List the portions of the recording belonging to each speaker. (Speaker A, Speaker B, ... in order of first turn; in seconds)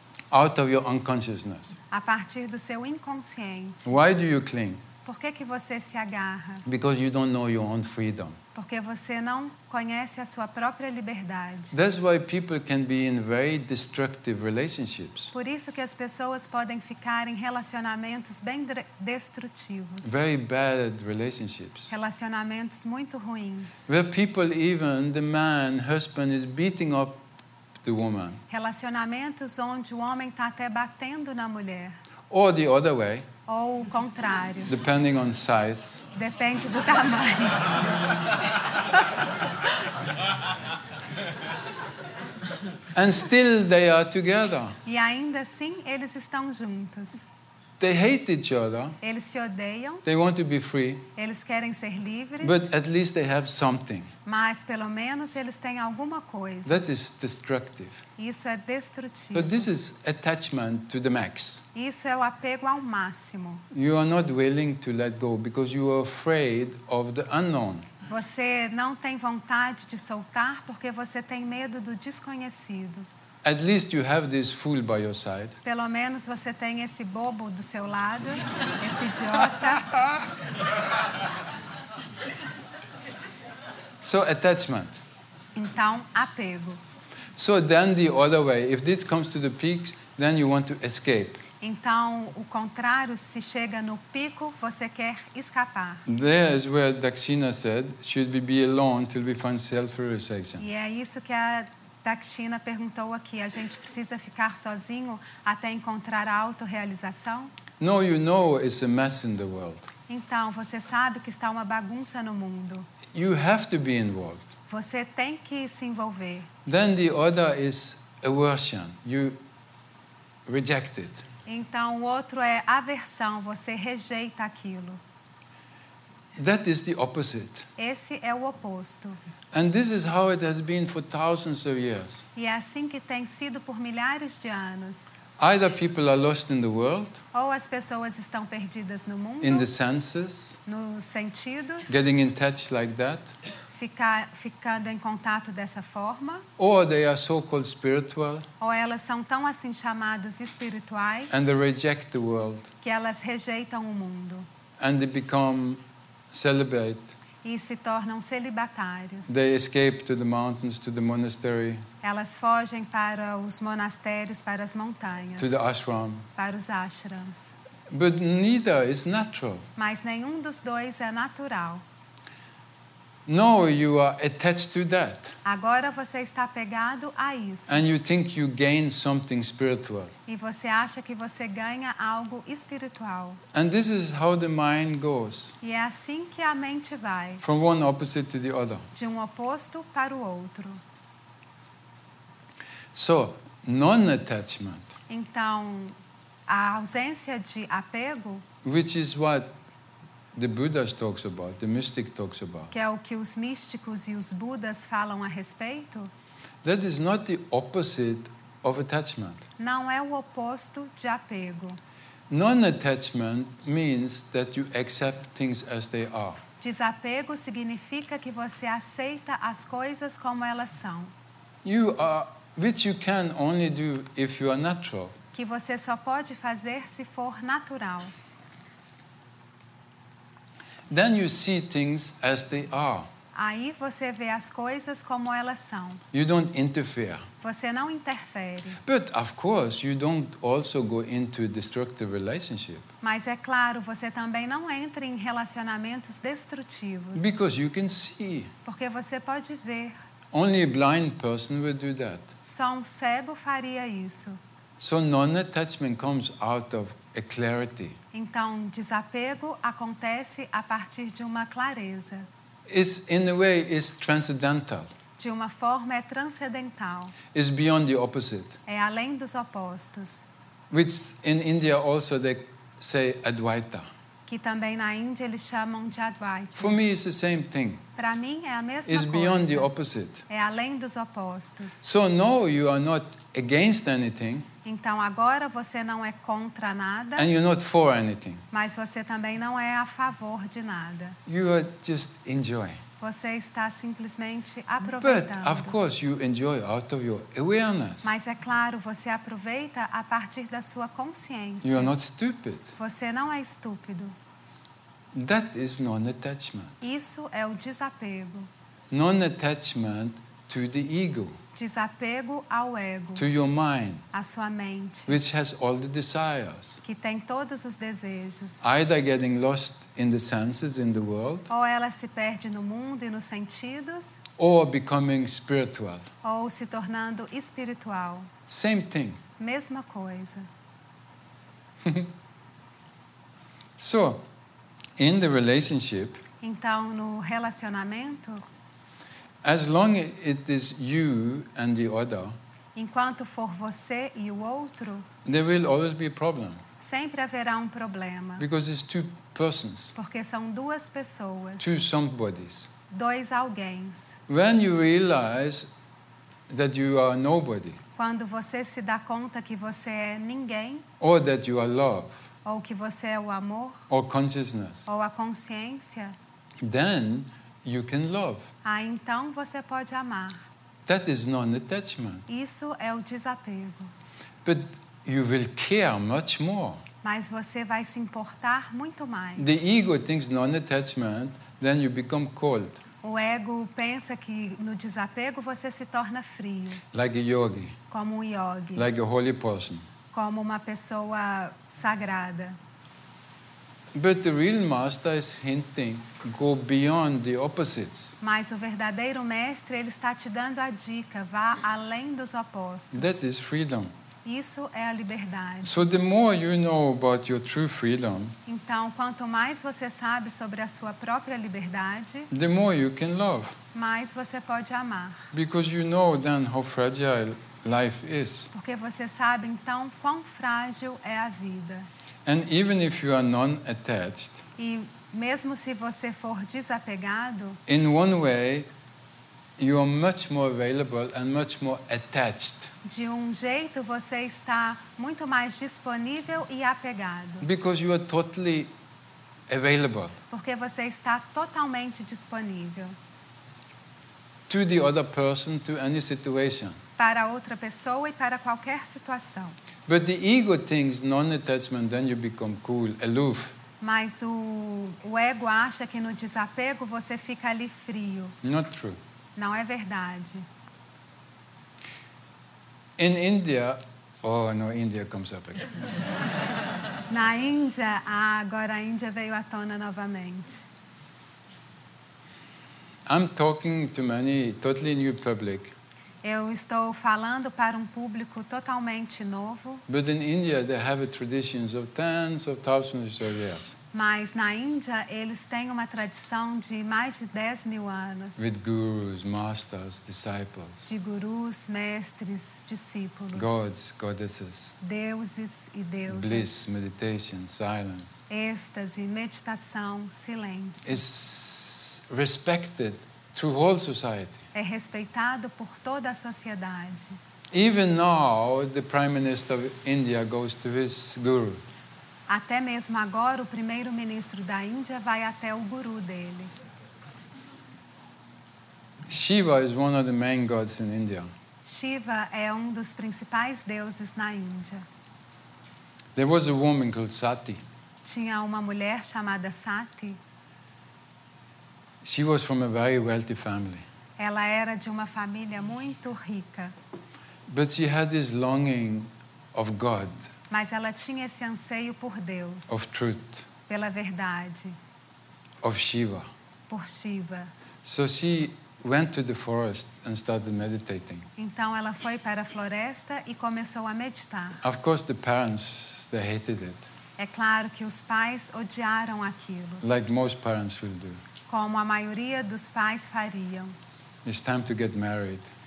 Speaker A: 0.3-1.8, 3.9-4.8, 6.7-8.4, 11.7-15.3, 20.0-21.9, 23.9-27.2, 27.8-28.4, 32.3-33.3, 34.7-36.1, 43.0-44.8, 47.8-49.0, 50.0-51.0, 52.4-54.1, 56.7-58.0, 59.3-61.6, 63.7-67.9, 73.4-75.6, 84.0-84.9, 87.4-91.4, 96.1-100.6, 107.8-109.9, 113.1-114.4, 116.7-119.4, 120.5-121.2, 126.4-127.7, 129.5-132.2, 135.4-137.2, 139.4-140.6, 141.9-143.3, 146.6-148.4, 151.3-152.7, 154.8-155.8, 156.3-157.1, 159.3-161.8, 165.4-166.3, 167.9-169.7, 173.3-175.4, 177.7-180.1, 183.5-185.6, 187.4-188.9, 192.9-194.9, 198.6-199.5, 200.3-202.7, 206.6-209.4, 212.3-216.4, 221.6-225.2, 230.9-233.1, 236.1-237.2, 238.8-242.9, 247.2-248.5, 250.3-252.3, 254.8-258.0, 262.7-264.9, 267.3-268.6, 270.7-273.9, 276.6-277.8, 278.9-280.2, 281.8-284.5, 287.2-288.4, 291.3-292.8, 294.8-298.1, 301.6-302.7, 305.1-306.8, 308.9-311.4, 313.2-314.1, 315.1-316.8, 318.6-321.5, 324.4-326.1, 328.5-329.2, 333.8-334.2, 335.0-336.2, 339.4-342.4, 345.3-346.6, 348.4-349.9, 351.6-352.7, 354.3-355.7, 356.5-357.8, 361.0-362.2, 363.9-364.9, 366.6-368.5, 370.9-372.3, 374.4-376.8, 379.4-382.8, 386.9-387.8, 388.8-389.9, 393.9-398.1, 402.9-403.9, 405.6-408.4, 412.3-413.6, 415.3-418.5, 422.2-424.4, 427.7-428.7, 429.6-432.7, 437.4-438.7, 439.5-440.2, 444.5-446.8, 449.9-453.6, 458.4-459.0, 463.0-465.7, 473.1-475.7, 479.9-483.8, 488.4-490.9, 493.3-494.8, 496.1-498.2, 500.9-504.4, 507.5-511.6, 519.1-521.3, 526.1-527.6, 532.0-533.9, 537.5-540.3, 542.7-543.5, 545.6-546.3, 547.8-551.2, 554.6-556.9, 559.8-561.2, 564.2-565.5
Speaker B: 1.9-4.0, 5.0-6.7, 8.6-11.7, 15.3-20.2, 21.9-23.9, 28.5-32.0, 33.5-34.7, 36.1-37.7, 44.9-47.2, 49.0-50.0, 51.2-52.7, 54.2-56.8, 58.2-59.7, 61.7-63.6, 68.1-73.1, 75.6-79.9, 85.5-86.8, 91.6-96.0, 100.6-107.5, 110.1-112.9, 114.7-116.5, 121.5-125.0, 127.8-129.2, 132.4-135.2, 137.3-139.7, 140.7-142.0, 143.8-146.4, 148.6-151.5, 152.8-154.5, 157.4-159.4, 162.0-165.6, 166.4-167.5, 169.8-171.8, 175.4-177.8, 180.3-183.4, 185.6-187.4, 188.9-190.8, 195.1-196.0, 196.5-198.4, 202.7-206.1, 209.6-211.8, 216.6-221.1, 225.3-228.1, 233.3-236.0, 237.4-238.8, 243.0-247.3, 248.7-249.9, 252.4-254.4, 258.1-262.3, 265.2-267.2, 268.7-270.3, 274.3-276.8, 278.0-279.7, 280.3-281.9, 284.6-287.3, 288.5-291.2, 293.0-295.8, 298.0-301.9, 302.8-304.1, 306.8-308.5, 311.6-313.3, 314.1-315.2, 316.8-318.6, 321.5-324.2, 326.2-328.3, 329.4-330.5, 336.4-338.4, 342.8-345.1, 346.8-348.4, 349.9-351.8, 352.9-354.2, 358.0-360.9, 362.4-363.8, 364.9-366.1, 368.6-370.4, 372.3-373.9, 377.0-379.6, 383.0-386.8, 387.9-388.9, 390.1-392.6, 398.2-403.2, 404.2-405.8, 408.5-412.3, 413.7-415.3, 418.5-421.9, 424.6-427.6, 432.8-437.5, 440.3-443.0, 447.0-449.5, 453.8-458.4, 459.4-460.5, 467.1-470.6, 476.2-479.8, 483.9-488.5, 490.9-493.6, 494.8-496.5, 498.3-501.0, 504.5-507.2, 512.3-516.5, 521.6-524.8, 528.0-530.2, 534.2-536.7, 540.5-542.8, 543.7-544.8, 546.7-547.5, 551.4-554.6, 557.2-559.8, 561.5-563.7